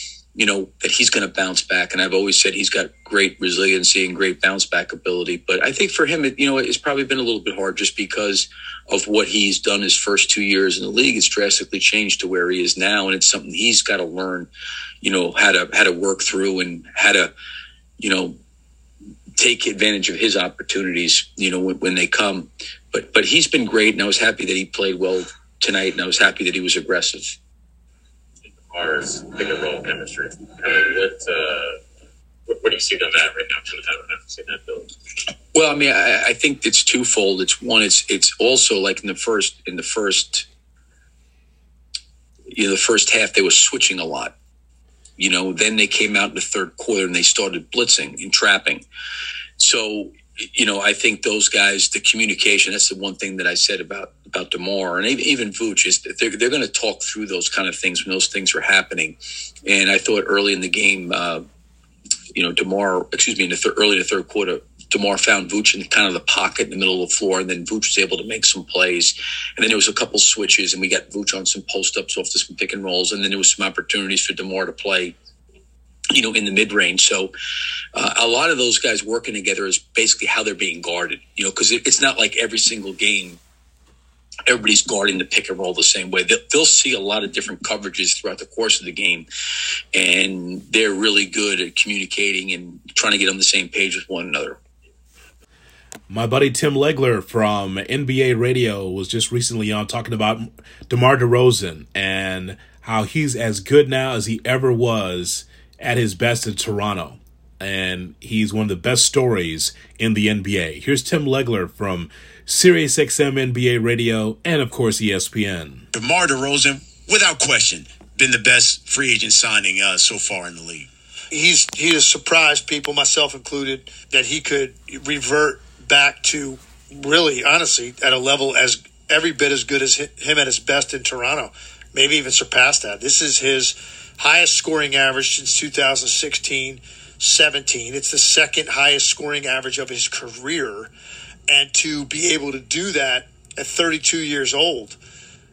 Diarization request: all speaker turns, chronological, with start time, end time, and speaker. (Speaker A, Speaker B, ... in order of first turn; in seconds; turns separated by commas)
Speaker A: 0.3-14.5, Speaker A: 15.0-17.3, Speaker A: 18.0-18.4, Speaker A: 19.4-27.4, Speaker B: 28.5-31.8, Speaker B: 32.5-34.9, Speaker A: 35.5-40.5, Speaker A: 42.5-44.3, Speaker A: 45.2-48.9, Speaker A: 49.6-61.5, Speaker A: 62.3-75.2, Speaker A: 76.1-77.3, Speaker A: 77.9-83.4, Speaker A: 84.5-89.3, Speaker A: 89.9-94.6, Speaker C: 96.1-115.9, Speaker D: 116.0-120.9, Speaker E: 121.3-140.9, Speaker E: 141.5-145.0